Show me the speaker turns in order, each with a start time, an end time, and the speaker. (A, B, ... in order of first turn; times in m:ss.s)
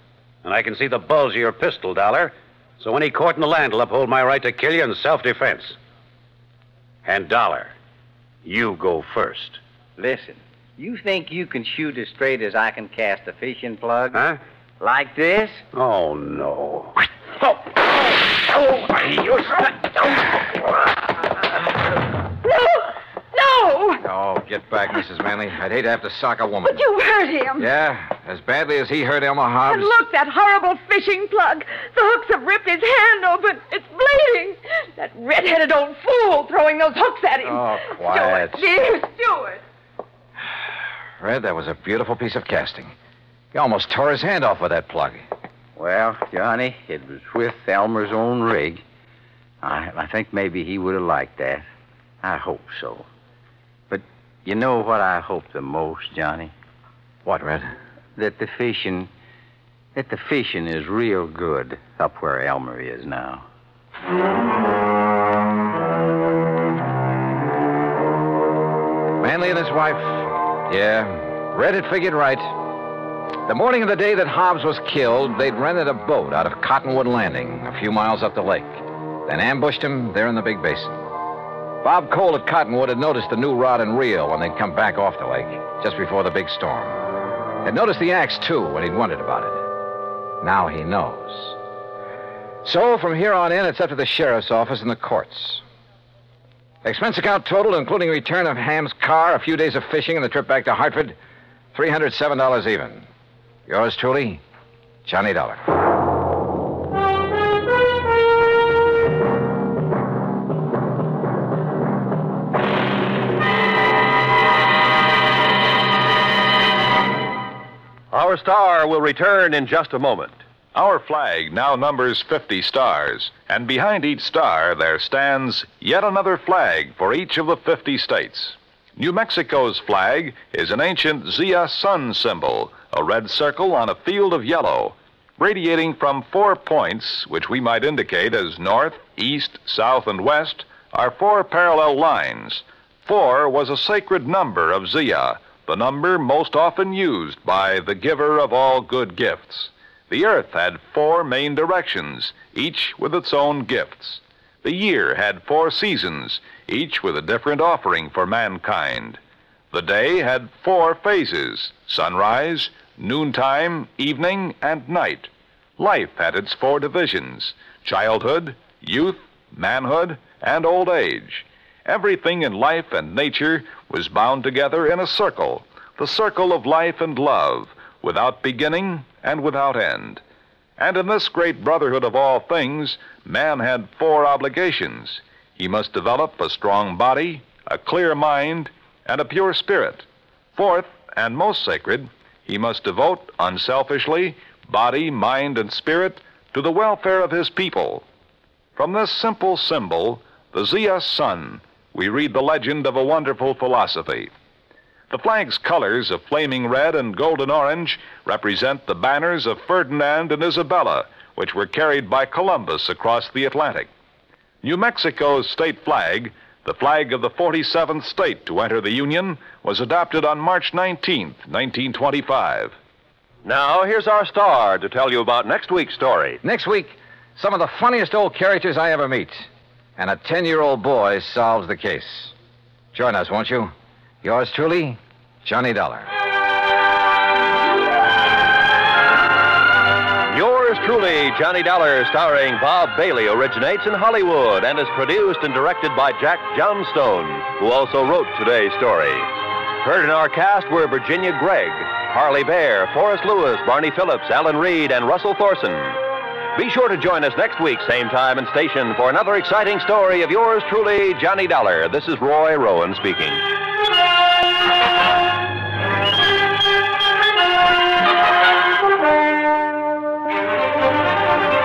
0:00.4-0:05.8 A
0:07.0-0:07.7 A
0:08.4-0:09.6 A
0:10.0-0:14.2 B
0:14.1-0:14.4 A
0:14.8-0:15.6 B
0:15.7-0:17.0 A
0:18.6-0:19.6 A
0:22.4-0:24.0 C
0:24.0-0:26.8 D
0:26.6-0:27.7 C
0:27.6-0:30.0 D
0:29.7-0:39.6 C
0:37.4-0:38.6 D
0:41.2-0:42.9 D
0:43.5-0:45.2 D
0:45.8-0:48.8 B
0:49.6-0:51.6 B
0:52.2-0:53.1 B
0:53.9-0:56.5 B
0:57.2-0:57.7 D
0:58.2-0:59.1 B
1:00.0-1:03.4 B
1:09.2-1:12.6 D
1:13.4-1:21.0 D
1:21.8-1:27.0 D
1:27.6-1:29.6 D
1:30.4-1:31.6 D
1:32.6-1:35.6 D
1:36.8-1:41.2 D
1:41.7-1:43.0 D
1:43.7-1:44.4 D
1:45.0-1:45.6 D
1:58.1-2:00.4 E
2:00.7-2:39.2 F
2:39.7-3:00.2 F
3:00.8-3:18.0 F
3:18.8-3:24.3 F
3:25.1-3:33.9 F
3:34.6-3:42.8 F
3:43.4-3:46.4 E
3:46.4-3:52.3 D
3:52.9-3:53.7 D
3:54.2-3:56.1 D
4:00.3-4:09.3 E
4:09.8-4:16.0 E
4:16.5-4:23.4 E